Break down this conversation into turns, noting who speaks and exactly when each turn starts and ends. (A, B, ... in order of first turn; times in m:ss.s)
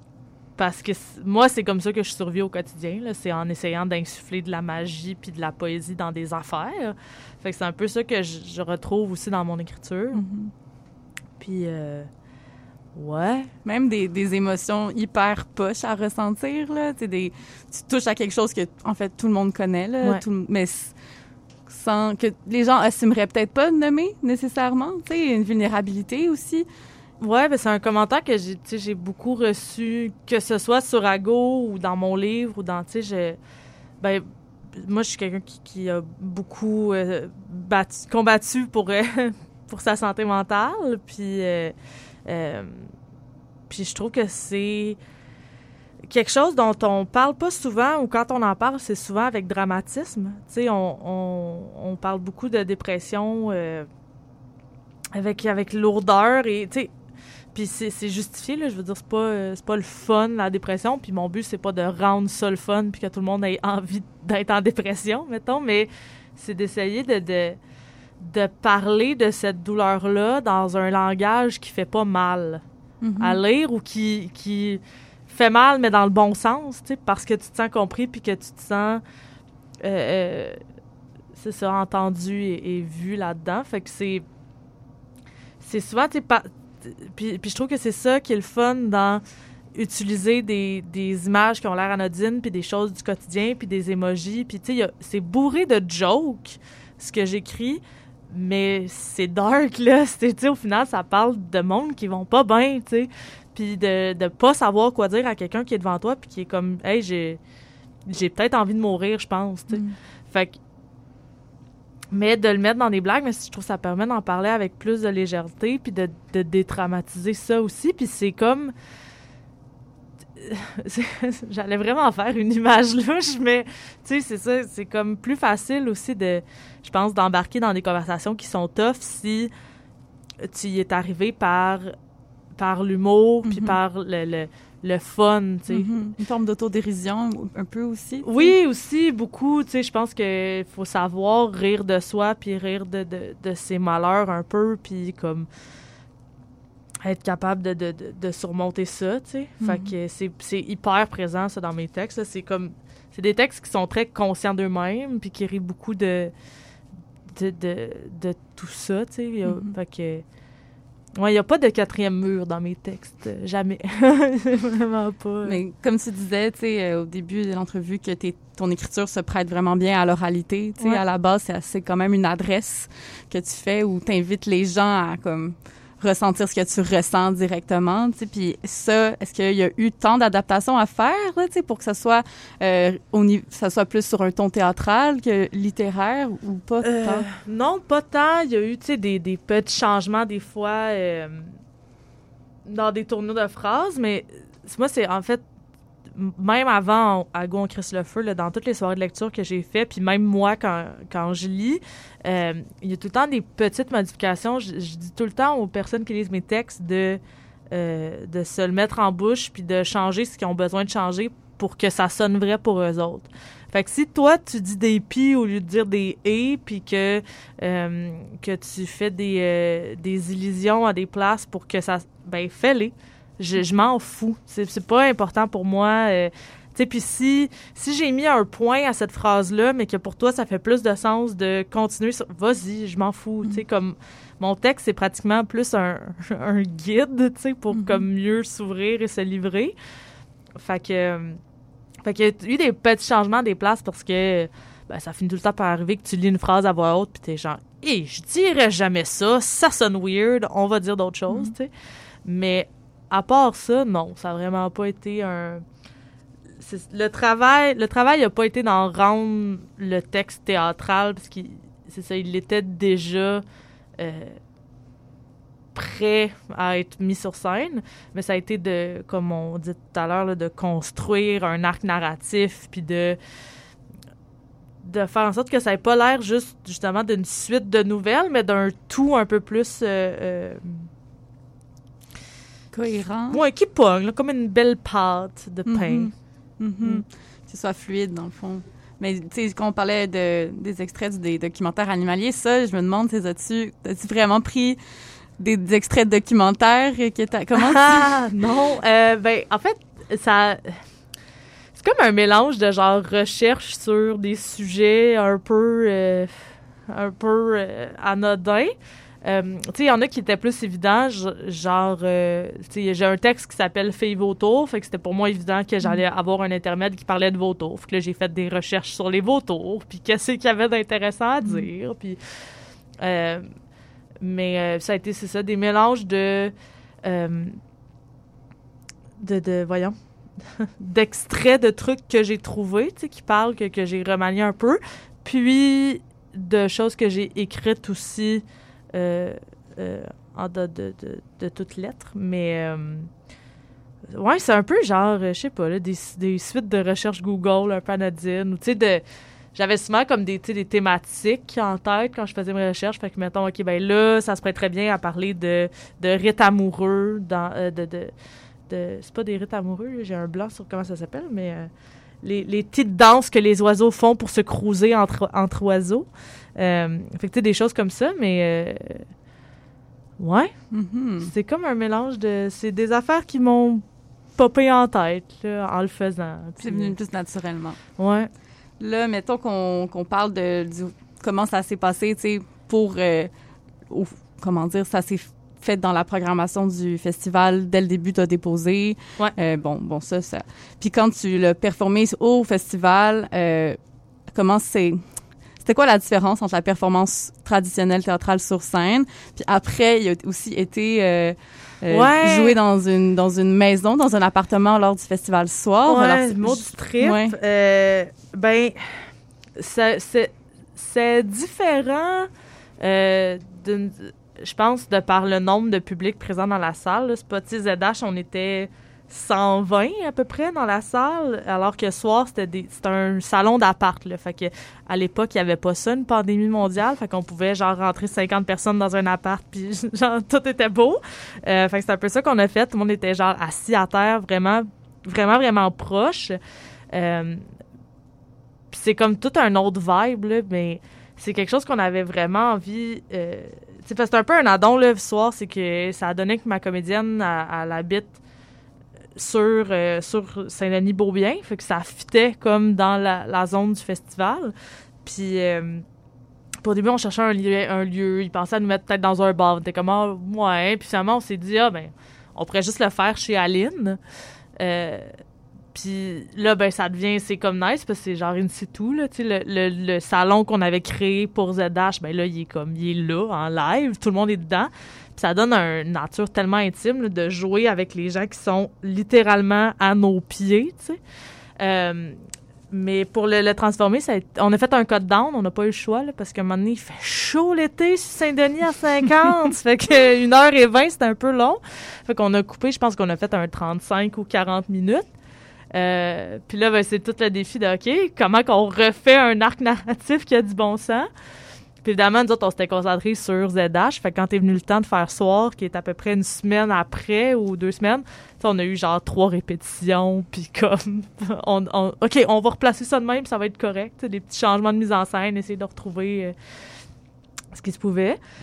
0:00.6-0:10.2 A
0:10.1-0:10.5 B
0:11.4-0:12.1 A
0:12.9-0:13.5 A
0:13.6-0:20.9 B
0:21.7-0:26.7 B
0:27.2-0:33.4 A
0:34.8-0:41.7 A
0:42.2-0:42.9 A
0:43.7-0:45.0 A
0:46.1-0:53.9 A
0:55.1-0:56.9 A
0:57.5-1:07.6 A
1:08.2-1:12.6 A
1:13.0-1:13.4 B
1:13.2-1:19.0 A
1:19.8-1:20.6 A
1:21.4-1:24.2 A
1:25.6-1:29.2 A
1:29.7-1:47.4 A
1:48.1-1:50.6 A
1:52.1-1:58.7 A
2:00.4-2:09.5 A
2:10.4-2:11.9 A
2:12.6-2:15.9 A
2:13.4-2:13.8 B
2:15.7-2:18.5 B
2:18.2-2:25.5 A
2:27.0-2:36.3 A
2:29.6-2:29.9 B
2:37.3-2:40.2 A
2:39.4-2:39.7 B
2:41.2-2:45.6 A
2:45.4-3:07.3 B
3:06.8-3:11.6 A
3:12.6-3:15.4 A
3:16.1-3:59.7 A
3:57.7-3:58.0 B
4:00.6-4:01.4 A
4:02.0-4:11.7 A
4:11.3-4:11.5 B
4:12.2-4:15.6 A
4:16.6-4:23.4 A
4:24.0-4:24.4 A
4:25.7-4:33.2 A
4:34.8-4:40.8 A
4:42.7-4:43.4 B
4:43.3-4:46.1 A
4:45.7-4:54.8 B
4:55.4-4:58.1 B
4:57.6-5:00.8 A
5:01.8-5:06.3 A
5:06.9-5:22.2 A
5:21.4-5:21.7 B
5:23.0-5:23.5 A
5:24.2-5:27.6 A
5:29.2-5:29.9 A
5:30.8-5:43.1 A
5:44.1-5:49.0 A
5:49.5-5:58.1 A
5:58.7-6:01.7 A
6:02.2-6:09.0 A
6:10.2-6:10.5 A
6:10.7-6:11.3 B
6:11.2-6:13.8 A
6:14.4-6:16.9 A
6:16.6-6:17.8 B
6:18.0-6:18.3 A
6:18.8-6:23.3 B
6:23.9-6:33.8 B
6:34.3-6:35.0 B
6:35.6-6:47.4 B
6:41.9-6:42.6 A
6:45.8-7:16.4 A
7:16.9-7:17.4 A
7:18.7-7:28.2 A
7:29.2-7:35.8 A
7:36.6-7:44.0 A
7:44.6-7:45.1 A
7:45.7-8:01.0 A
8:01.6-8:02.2 A
8:02.7-8:15.1 A
8:15.7-8:21.1 A
8:21.8-8:36.3 A
8:37.5-8:38.2 A